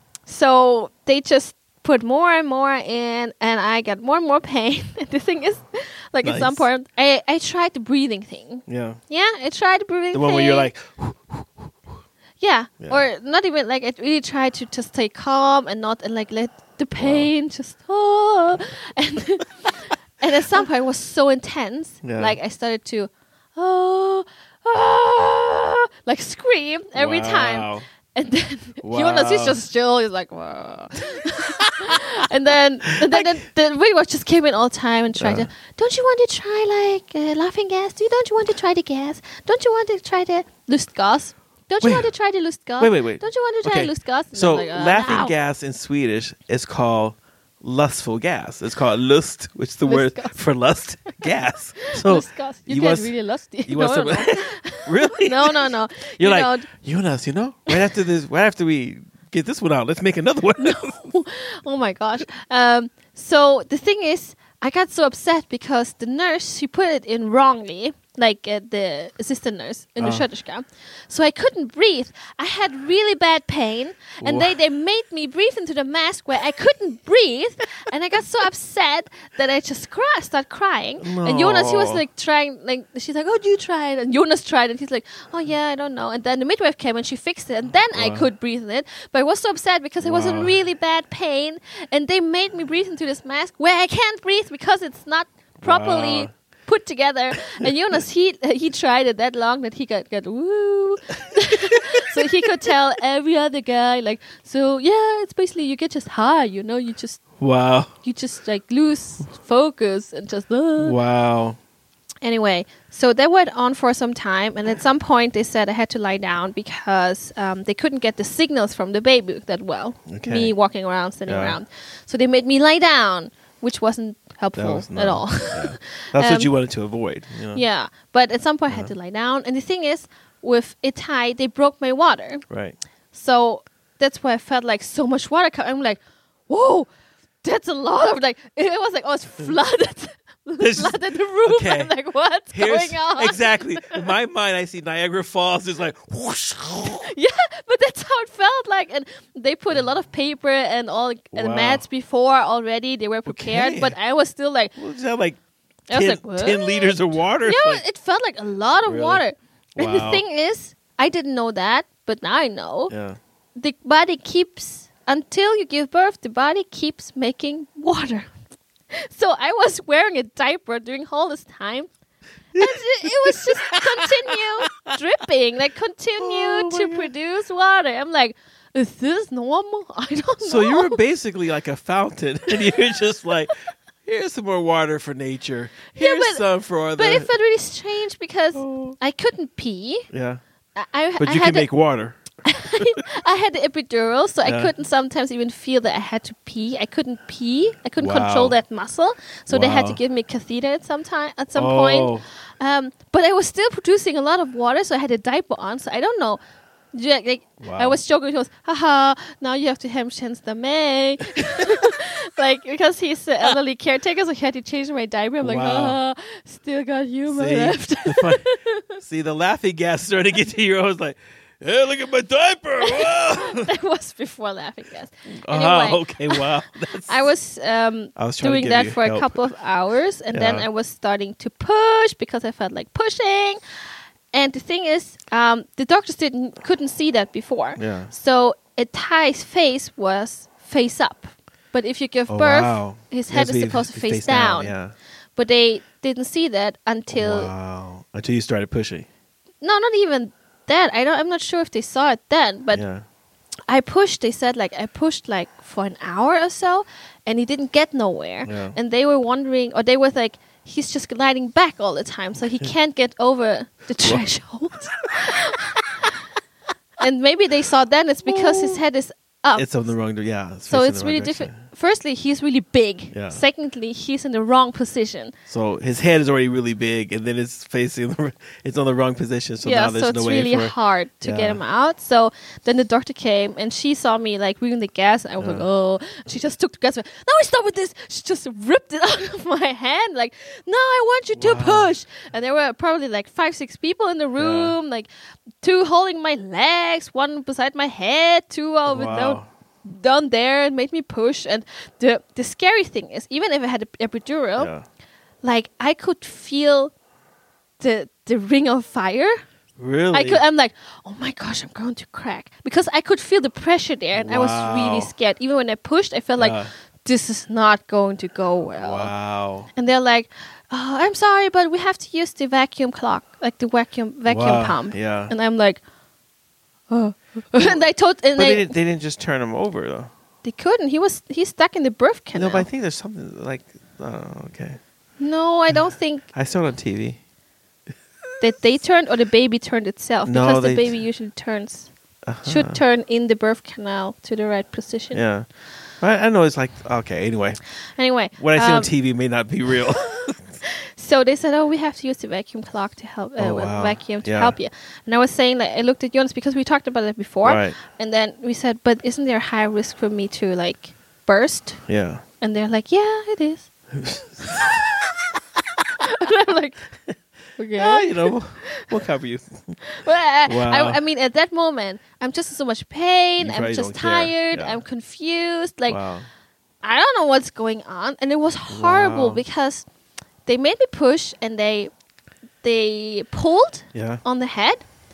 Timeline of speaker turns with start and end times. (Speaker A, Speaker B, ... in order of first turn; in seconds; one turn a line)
Speaker A: 0.2-10.7
Speaker B: 6.2-6.7
Speaker B: 8.7-9.0
Speaker B: 10.1-11.9
Speaker A: 12.4-45.3
Speaker B: 17.0-17.3
Speaker B: 22.0-22.4
Speaker B: 26.9-27.9
Speaker B: 28.8-29.6
Speaker B: 31.6-32.0
Speaker B: 33.0-33.3
Speaker B: 35.1-35.5
Speaker B: 41.8-42.1
Speaker B: 42.8-53.1
Speaker A: 49.8-50.4
Speaker A: 51.8-56.7
Speaker B: 53.6-61.0
Speaker A: 60.6-107.3
Speaker B: 70.0-70.2
Speaker B: 74.2-74.5
Speaker B: 81.0-82.0
Speaker B: 87.9-88.3
Speaker B: 90.0-90.5
Speaker B: 95.6-96.3
Speaker B: 101.7-102.2
Speaker B: 107.4-107.9
Speaker A: 108.0-111.0
Speaker B: 110.8-111.6
Speaker A: 112.2-126.5
Speaker B: 120.1-120.5
Speaker B: 121.3-121.6
Speaker B: 124.5-127.6
Speaker A: 127.5-132.4
Speaker B: 132.5-132.8
Speaker A: 133.1-136.9
Speaker A: 137.4-144.1
Speaker B: 140.6-141.9
Speaker B: 142.5-147.1
Speaker A: 147.0-154.7
Speaker B: 151.3-151.8
Speaker B: 153.2-153.9
Speaker B: 154.8-155.4
Speaker A: 155.9-162.9
Speaker B: 155.9-157.8
Speaker B: 158.9-159.2
Speaker B: 159.8-160.2
Speaker B: 162.9-163.2
Speaker A: 163.6-168.3
Speaker A: 168.9-171.9
Speaker B: 172.5-174.9
Speaker A: 172.5-181.0
Speaker B: 176.2-177.1
Speaker B: 180.4-183.5
Speaker B: 184.0-187.3
Speaker A: 185.9-186.4
Speaker A: 186.9-190.1
Speaker B: 188.5-188.9
Speaker B: 190.1-190.4
Speaker A: 190.8-191.7
Speaker B: 191.2-192.2
Speaker A: 192.4-206.4
Speaker B: 198.0-198.6
Speaker B: 199.5-200.0
Speaker B: 201.5-202.2
Speaker A: 206.9-218.9
Speaker B: 207.6-208.0
Speaker B: 211.4-211.8
Speaker B: 215.4-216.0
Speaker B: 217.3-218.4
Speaker B: 219.0-223.7
Speaker A: 222.8-226.5
Speaker B: 225.4-227.2
Speaker A: 227.1-233.6
Speaker B: 228.2-229.4
Speaker B: 230.3-230.7
Speaker A: 234.3-244.7
Speaker B: 237.8-238.1
Speaker B: 242.3-244.9
Speaker A: 245.3-247.5
Speaker B: 247.1-249.1
Speaker A: 249.6-252.8
Speaker B: 252.7-253.0
Speaker A: 253.7-265.8
Speaker B: 258.4-258.8
Speaker B: 264.9-265.9
Speaker A: 267.0-269.7
Speaker B: 268.2-268.8
Speaker B: 269.6-271.5
Speaker A: 270.7-275.3
Speaker B: 273.1-273.4
Speaker B: 275.5-281.6
Speaker A: 279.6-295.1
Speaker B: 285.4-285.6
Speaker B: 291.4-291.9
Speaker B: 294.4-294.7
Speaker A: 295.6-304.7
Speaker B: 298.9-299.5
Speaker B: 304.6-304.8
Speaker A: 305.4-306.9
Speaker A: 307.8-309.4
Speaker B: 309.8-310.4
Speaker A: 310.1-319.1
Speaker B: 314.1-315.1
Speaker B: 316.4-316.7
Speaker B: 318.8-319.7
Speaker A: 319.7-325.8
Speaker B: 324.3-325.3
Speaker A: 326.9-328.7
Speaker B: 328.4-330.1
Speaker A: 330.4-332.7
Speaker B: 332.3-334.8
Speaker A: 335.2-336.3
Speaker B: 336.3-337.2
Speaker A: 338.4-341.9
Speaker B: 340.2-341.0
Speaker B: 342.2-342.8
Speaker A: 342.4-345.2
Speaker B: 345.1-345.4
Speaker B: 346.0-347.6
Speaker A: 347.9-348.9
Speaker B: 348.4-350.4
Speaker A: 350.6-361.8
Speaker B: 353.4-354.5
Speaker B: 357.4-357.8
Speaker B: 361.9-362.2
Speaker A: 362.4-363.7
Speaker B: 363.9-364.8
Speaker A: 366.0-366.8
Speaker A: 367.6-368.9
Speaker B: 367.7-369.8
Speaker A: 369.8-376.0
Speaker B: 370.5-371.0
Speaker B: 373.4-374.8
Speaker B: 375.9-376.3
Speaker A: 376.8-379.9
Speaker B: 378.7-379.4
Speaker A: 380.4-381.9
Speaker A: 382.6-384.8
Speaker B: 383.9-384.2